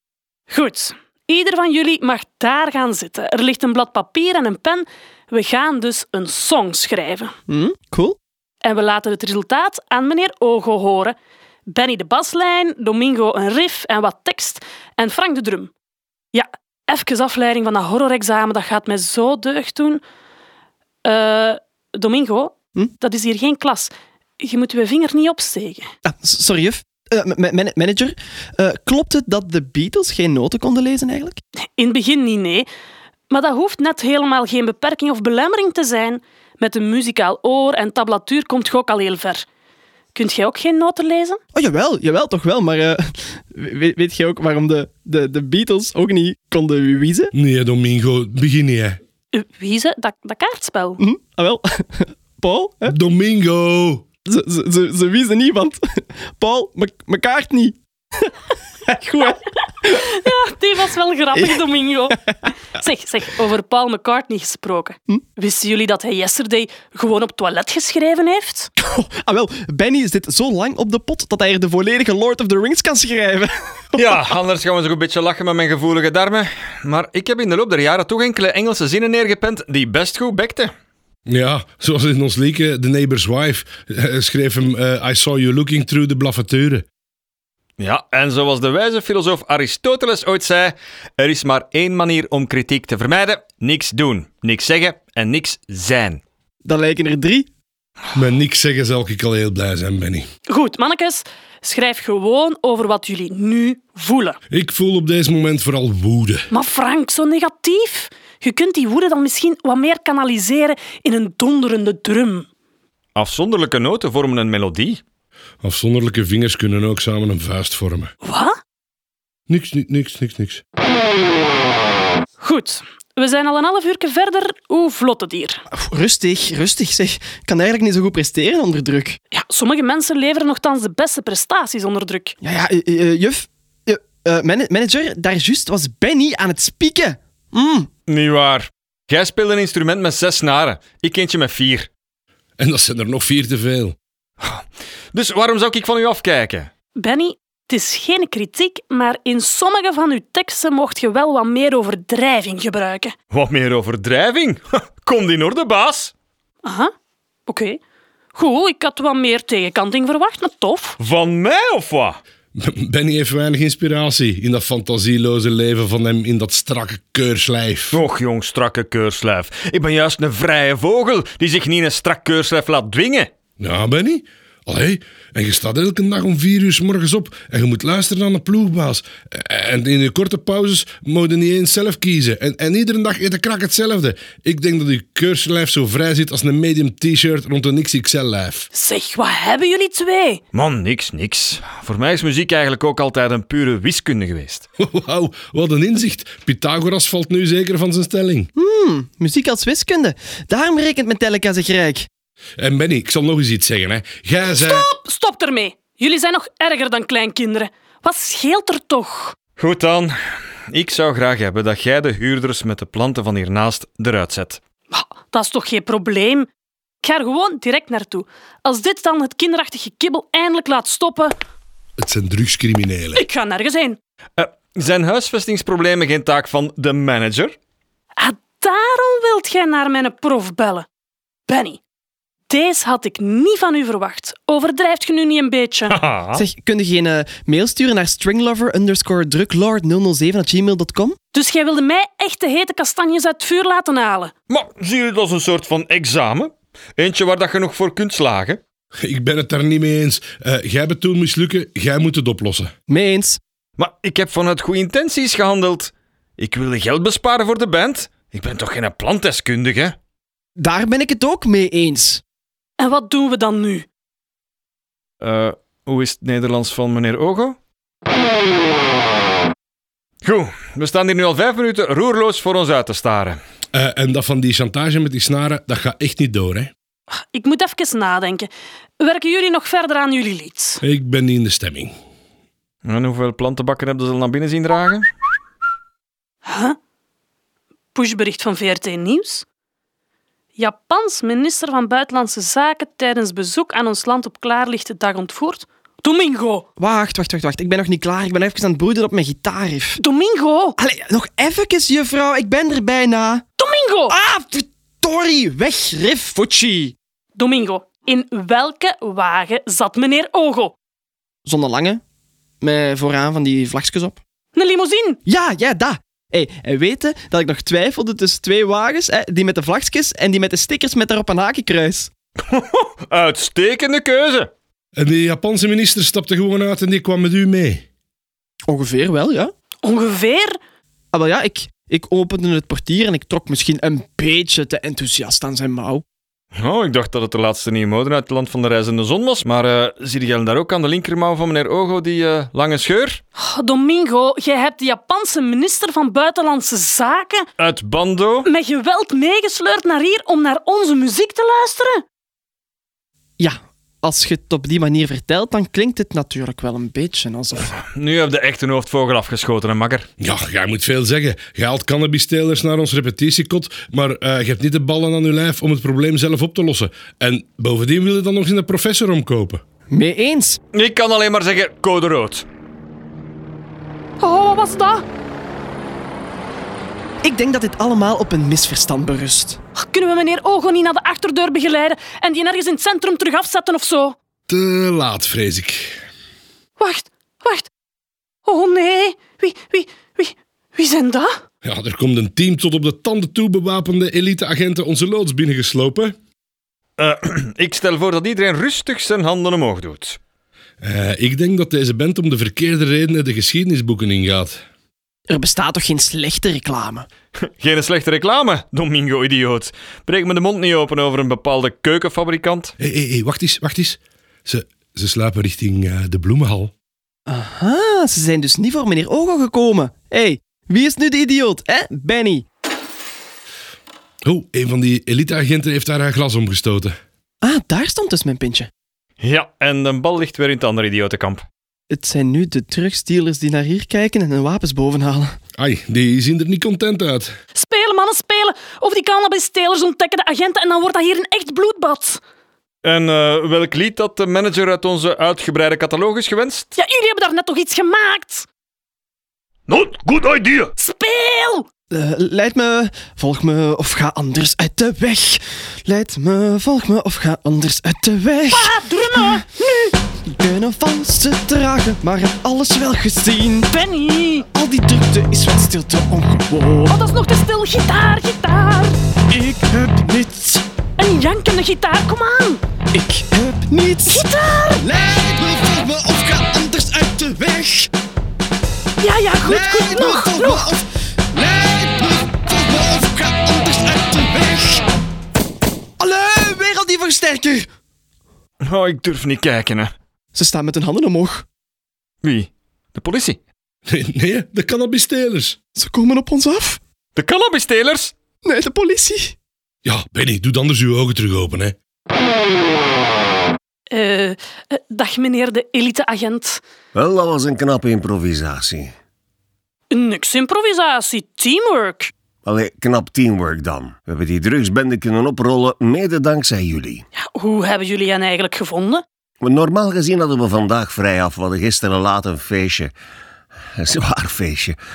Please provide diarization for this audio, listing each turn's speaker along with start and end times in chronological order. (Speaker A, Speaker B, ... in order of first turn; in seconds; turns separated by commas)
Speaker A: 0.5-7.3, Speaker B: 7.5-8.2, Speaker A: 8.6-11.2, Speaker A: 11.7-15.7, Speaker A: 16.3-20.0, Speaker A: 21.1-25.9, Speaker B: 26.0-31.4, Speaker A: 31.6-32.7, Speaker A: 33.3-39.5, Speaker A: 40.1-41.4, Speaker B: 41.5-47.3, Speaker C: 47.3-49.0, Speaker A: 49.3-51.0, Speaker B: 51.0-53.0, Speaker C: 52.9-54.1, Speaker B: 54.3-60.2, Speaker A: 59.8-68.7, Speaker B: 61.4-62.4, Speaker B: 68.8-74.2, Speaker D: 73.9-80.7, Speaker C: 81.3-86.8, Speaker D: 87.8-96.2, Speaker B: 96.7-97.5, Speaker C: 98.1-100.3, Speaker A: 100.5-104.4, Speaker C: 104.5-106.5, Speaker A: 106.5-112.5, Speaker D: 113.2-115.0, Speaker C: 115.6-118.1, Speaker A: 118.2-118.6, Speaker C: 119.5-120.6, Speaker A: 122.4-125.6, Speaker B: 125.7-129.2, Speaker A: 129.3-132.3, Speaker B: 132.4-137.9, Speaker D: 138.1-141.9, Speaker C: 142.6-144.0, Speaker D: 144.4-146.7, Speaker A: 147.0-153.1, Speaker D: 153.3-156.1, Speaker A: 156.6-156.9, Speaker A: 157.5-157.8, Speaker A: 158.3-161.0, Speaker D: 161.0-162.2, Speaker C: 162.6-168.0, Speaker D: 167.9-173.3, Speaker C: 173.6-188.7, Speaker A: 188.7-190.4, Speaker D: 190.5-194.7, Speaker C: 194.8-198.5, Speaker B: 198.6-202.1, Speaker C: 202.6-204.9, Speaker A: 204.6-209.4, Speaker D: 209.6-210.1, Speaker D: 210.7-214.6, Speaker A: 214.9-216.5, Speaker A: 217.0-221.3, Speaker C: 222.0-223.2, Speaker A: 223.2-224.0, Speaker D: 224.4-227.6, Speaker A: 228.2-230.9, Speaker A: 231.5-231.8, Speaker A: 232.5-236.0, Speaker D: 235.9-236.4, Speaker B: 236.3-241.2, Speaker A: 241.3-244.3, Speaker D: 244.5-248.6, Speaker C: 249.0-252.7, Speaker B: 252.9-253.4, Speaker D: 253.8-260.0, Speaker B: 260.6-262.2, Speaker A: 262.8-263.9, Speaker D: 265.2-267.6, Speaker D: 270.2-273.4, Speaker C: 273.7-276.7, Speaker A: 277.1-280.8, Speaker C: 280.8-281.9, Speaker D: 282.8-285.1, Speaker A: 286.4-286.8, Speaker A: 287.9-289.4, Speaker A: 290.6-296.6, Speaker B: 296.8-300.0, Speaker A: 300.0-300.8, Speaker B: 300.8-303.4, Speaker A: 303.6-304.1, Speaker B: 304.1-307.0, Speaker A: 307.4-310.7, Speaker B: 311.4-312.0, Speaker B: 312.6-314.2, Speaker A: 314.6-315.2, Speaker B: 315.3-322.1, Speaker D: 322.5-324.5, Speaker C: 325.0-327.8, Speaker B: 328.7-329.5, Speaker A: 329.8-330.6, Speaker B: 331.1-336.0, Speaker D: 336.6-343.2, Speaker A: 343.4-347.5, Speaker D: 347.6-348.5, Speaker A: 348.4-352.0, Speaker B: 353.4-357.7, Speaker D: 357.7-360.1, Speaker C: 360.2-369.6, Speaker B: 369.9-370.6, Speaker D: 370.7-372.5, Speaker A: 374.2-375.1, Speaker B: 377.2-379.6, Speaker A: 379.8-384.2, Speaker C: 384.5-386.0, Speaker A: 386.8-387.7, Speaker A: 388.4-391.4, Speaker C: 391.6-396.2, Speaker D: 397.0-400.2, Speaker C: 400.8-404.6, Speaker B: 405.3-407.1, Speaker D: 407.4-412.8, Speaker C: 412.8-416.7, Speaker B: 417.3-422.5, Speaker C: 424.2-427.0, Speaker B: 427.4-428.7, Speaker D: 429.2-431.4, Speaker B: 431.9-435.4, Speaker C: 435.6-437.4, Speaker A: 437.6-442.2, Speaker D: 442.8-446.7, Speaker A: 446.8-448.5, Speaker D: 449.7-450.7, Speaker A: 450.8-451.7, Speaker B: 451.9-459.4, Speaker A: 458.5-459.9, Speaker B: 460.3-463.7, Speaker A: 463.7-464.5, Speaker B: 464.5-466.9, Speaker A: 466.9-469.0, Speaker B: 469.3-470.6, Speaker A: 471.0-472.6, Speaker B: 472.9-477.9, Speaker A: 474.1-474.8, Speaker A: 479.0-480.7, Speaker B: 479.4-484.9, Speaker B: 486.0-487.7, Speaker D: 488.6-489.9, Speaker B: 490.3-491.5, Speaker D: 492.2-493.4, Speaker C: 493.9-495.6, Speaker B: 495.8-496.8, Speaker D: 497.2-498.1, Speaker B: 498.4-499.4, Speaker C: 499.9-501.8, Speaker A: 503.9-506.6, Speaker E: 506.9-508.9, Speaker A: 509.9-512.1, Speaker E: 512.5-517.0, Speaker A: 517.2-519.0, Speaker E: 519.4-522.9, Speaker E: 523.8-524.8